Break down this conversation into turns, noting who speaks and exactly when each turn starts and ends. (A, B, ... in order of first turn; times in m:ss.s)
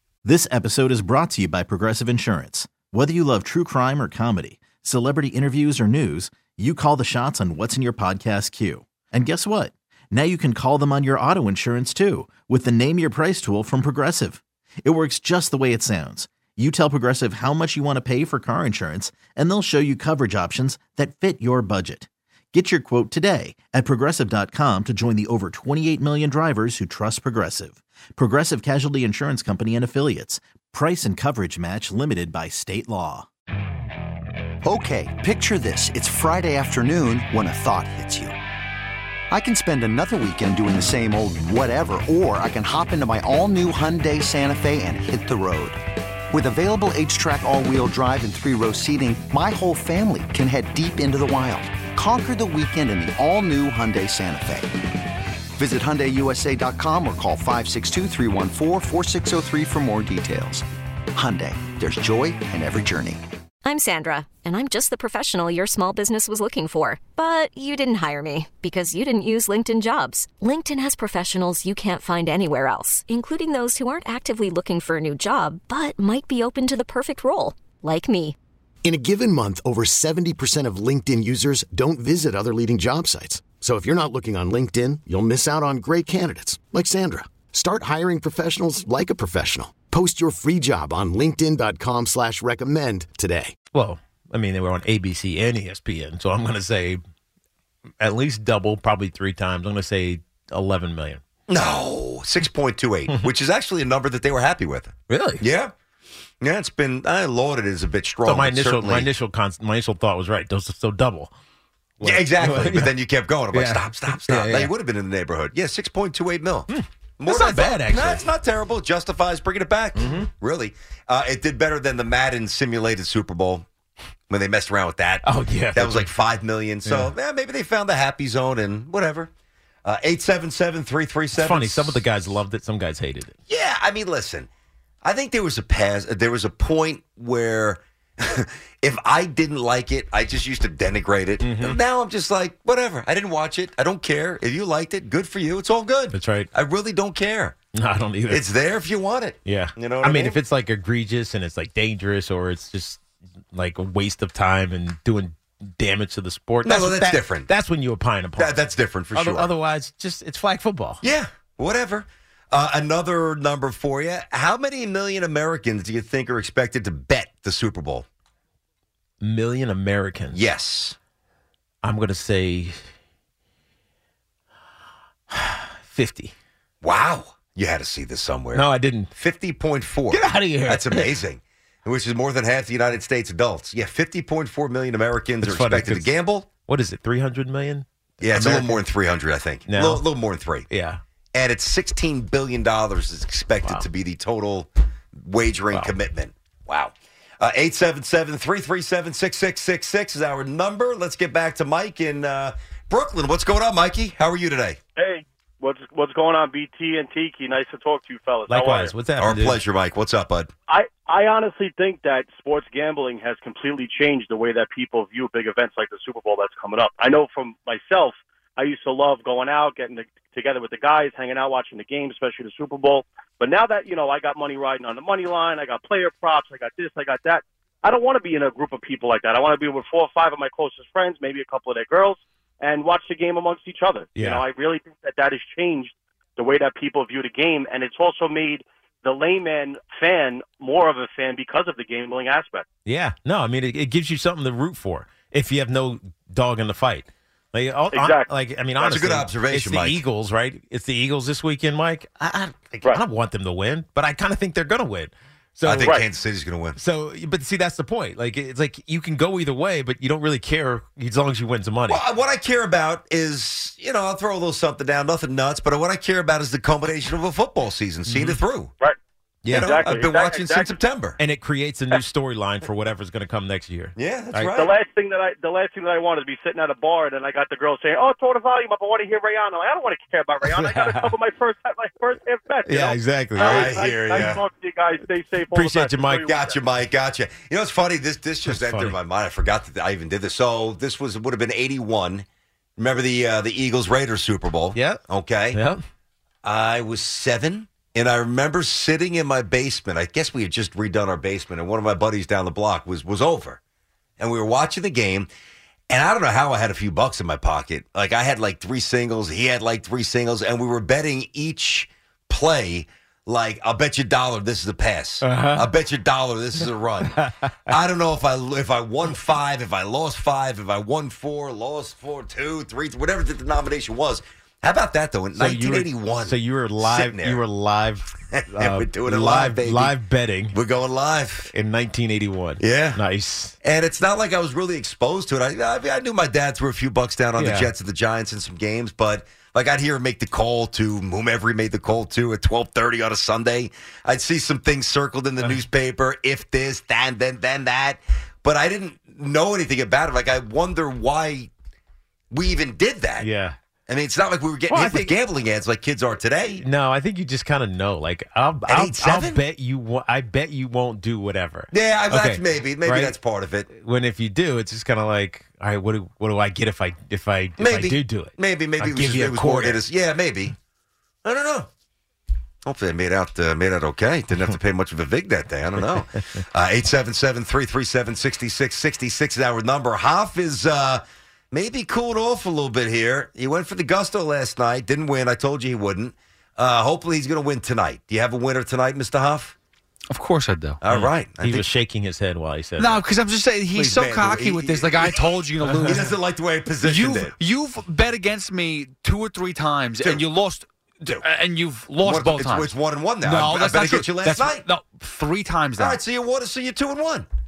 0:00.2-0:33.3 A
0:34.6-0:38.4 B
0:39.3-0:54.8 B
0:55.6-1:03.2 B
1:03.6-1:18.4 C
1:18.8-1:33.6 D
1:33.7-1:37.0 E
1:38.0-1:41.2 E
1:41.5-1:45.7 F
1:45.1-1:45.4 E
1:46.4-1:49.1 F
1:48.2-1:51.3 E
1:52.0-1:52.9 E
1:52.0-2:03.7 F
1:53.5-1:54.7 E
1:56.7-1:58.2 E
2:00.0-2:00.3 E
2:04.3-2:09.3 F
2:05.2-2:06.1 E
2:06.8-2:07.1 E
2:09.8-2:12.0 F
2:11.4-2:13.4 E
2:13.5-2:14.5 F
2:15.0-2:27.6 F
2:21.4-2:21.8 E
2:26.1-2:26.5 E
2:27.7-2:28.4 E
2:28.3-2:30.4 F
2:29.4-2:33.0 E
2:33.5-2:38.6 E
2:36.6-2:37.5 F
2:38.4-2:39.5 F
2:39.1-2:41.0 E
2:41.0-2:48.1 F
2:49.2-2:50.4 E
2:50.3-2:51.0 F
2:51.8-2:52.8 E
2:55.3-2:56.3 E
2:56.8-3:06.5 F
2:58.5-2:59.1 E
3:00.1-3:01.2 E
3:05.4-3:06.1 E
3:06.7-3:08.8 E
3:08.2-3:10.7 F
3:09.7-3:10.1 E
3:10.7-3:11.0 E
3:11.3-3:24.8 F
3:25.0-3:29.0 G
3:28.5-3:29.6 E
3:29.2-3:30.5 F
3:30.7-4:02.7 G
3:54.2-3:54.4 E
4:02.8-4:16.0 E
4:07.9-4:08.3 G
4:08.8-4:10.0 F
4:15.6-4:16.8 F
4:16.8-4:22.0 E
4:21.9-4:28.7 F
4:28.1-4:28.4 E
4:29.4-4:29.9 E
4:29.5-4:31.2 F
4:29.5-4:30.7 G
4:31.2-4:34.6 E
4:34.0-4:34.7 F
4:34.5-4:46.6 G
4:40.4-4:41.1 E
4:42.7-4:44.4 E
4:43.4-4:44.4 F
4:45.5-4:46.3 E
4:46.1-4:52.3 F
4:48.5-4:49.0 E
4:52.8-4:55.6 F
4:54.7-4:55.0 E
4:55.5-4:55.8 E
4:56.4-5:03.6 F
5:04.2-5:05.3 F
5:05.9-5:27.4 F
5:15.2-5:15.7 E
5:17.2-5:17.7 E
5:25.4-5:30.6 E
5:28.3-5:30.0 F
5:30.5-5:31.5 F
5:31.5-5:33.6 E
5:32.6-5:33.0 F
5:33.6-5:51.5 F
5:37.4-5:37.7 E
5:52.3-5:53.3 F
5:53.2-5:53.6 E
5:53.9-5:56.6 F
5:54.7-5:55.2 E
5:56.6-6:03.2 E
5:58.6-5:59.4 F
6:01.7-6:03.7 F
6:03.7-6:09.8 E
6:07.6-6:10.6 F
6:11.2-6:11.7 F
6:12.6-6:29.6 F
6:15.9-6:16.2 E
6:30.1-6:30.8 H
6:30.8-6:31.7 F
6:31.0-6:33.0 E
6:32.8-6:36.2 H
6:33.7-6:35.2 F
6:35.6-6:36.0 E
6:35.8-6:37.3 F
6:36.8-6:42.7 H
6:40.0-6:40.2 F
6:42.0-6:44.6 F
6:43.2-6:46.0 H
6:45.8-6:47.3 F